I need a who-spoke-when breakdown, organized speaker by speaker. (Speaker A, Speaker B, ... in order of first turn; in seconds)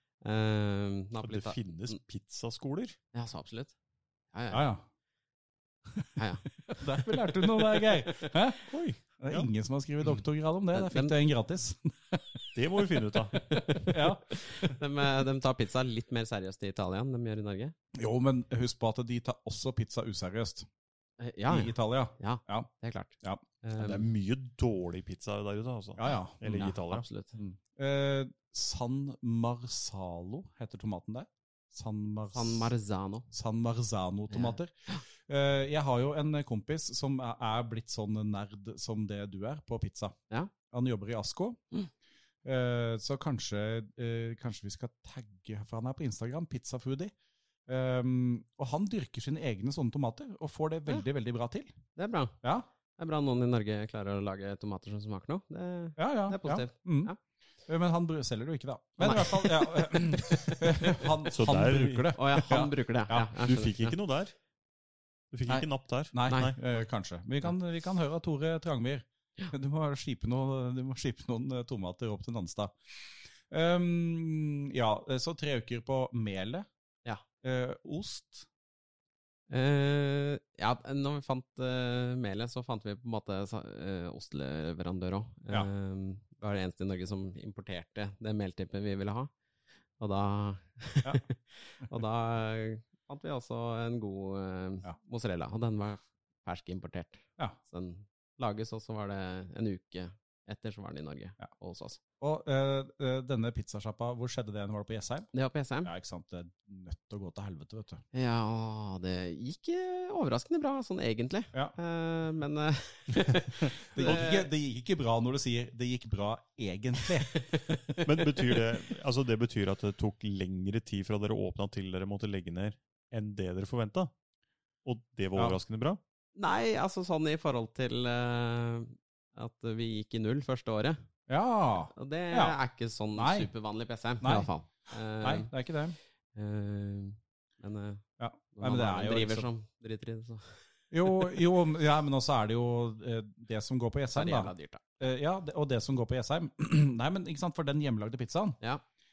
Speaker A: 0.2-2.0, 3.1-3.8, 4.3-4.7, 6.2-8.3, 10.7-11.2, 13.3-17.8, 21.2-24.1, 26.1-27.4, 32.3-33.3, 34.3-35.0, 52.0-52.4, 53.0-57.2, 59.0-61.1, 62.2-64.0, 66.3-66.5, 79.5-89.3, 90.0-102.0, 105.3-105.9, 108.1-114.5, 117.3-118.7, 126.3-131.0, 131.9-135.5, 136.3-138.1, 138.6-141.4, 144.1-144.8
Speaker B: 1.2-3.0, 8.7-9.5, 12.5-13.5, 23.8-27.1, 61.3-62.1, 63.3-64.3, 65.3-66.6, 118.0-124.1, 124.8-126.0
Speaker C: 4.5-4.8, 6.7-8.6, 9.2-12.4, 13.8-14.7, 18.0-20.7, 21.5-22.7, 26.0-26.8, 27.4-32.7, 33.3-40.1, 40.7-41.6, 42.4-47.1, 47.7-51.8, 56.0-57.1, 57.7-63.3, 65.5-76.7, 77.4-78.5, 102.2-105.3, 105.8-108.0, 113.9-117.8, 131.3-132.6, 133.1-133.5, 134.2-134.5, 135.2-136.0, 138.2-139.5, 140.9-148.6